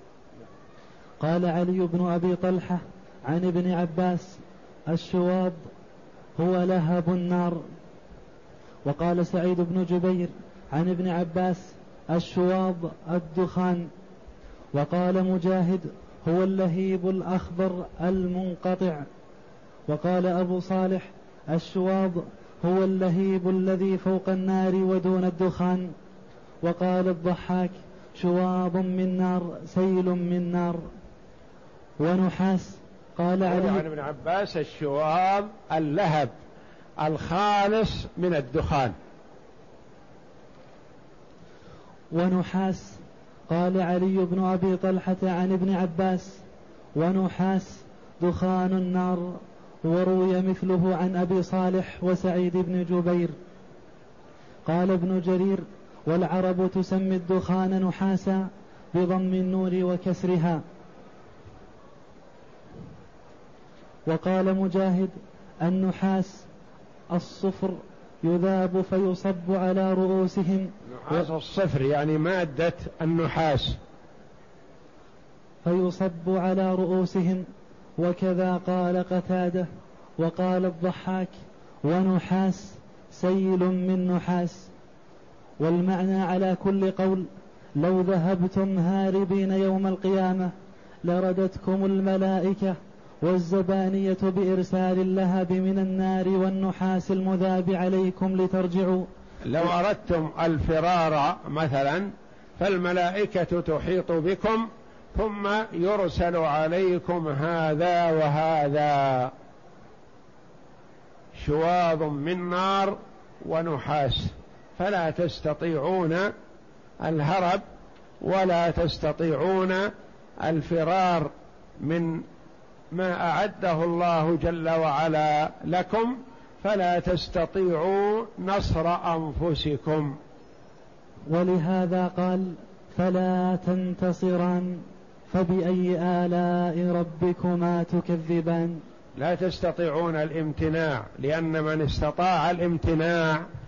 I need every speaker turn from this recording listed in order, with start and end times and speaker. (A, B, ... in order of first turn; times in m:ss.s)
0:01.2-0:05.6 A
0:06.4-0:07.6 A
0:08.8-0:13.9 A
0:14.7-0:19.1 A
0:19.9-0:25.9 A
0:26.6-0:30.8 A
0:32.0-0:33.9 A
0:33.4-0:36.3 B
0:37.0-0:38.9 B
0:42.1-0:46.4 A
0:47.0-0:53.4 A
0:54.6-1:00.6 A
1:04.1-1:06.5 A
1:07.1-1:10.7 A
1:11.0-1:13.8 B
1:15.6-1:17.5 A
1:18.0-1:19.7 A
1:20.2-1:24.7 A
1:25.6-1:27.3 A
1:27.8-1:39.1 A
1:39.4-1:49.3 B
1:51.4-1:56.3 B
1:57.0-1:57.6 B
1:58.2-1:59.9 B
2:00.4-2:02.2 B
2:02.9-2:10.2 B
2:11.3-2:18.8 A
2:19.2-2:23.4 B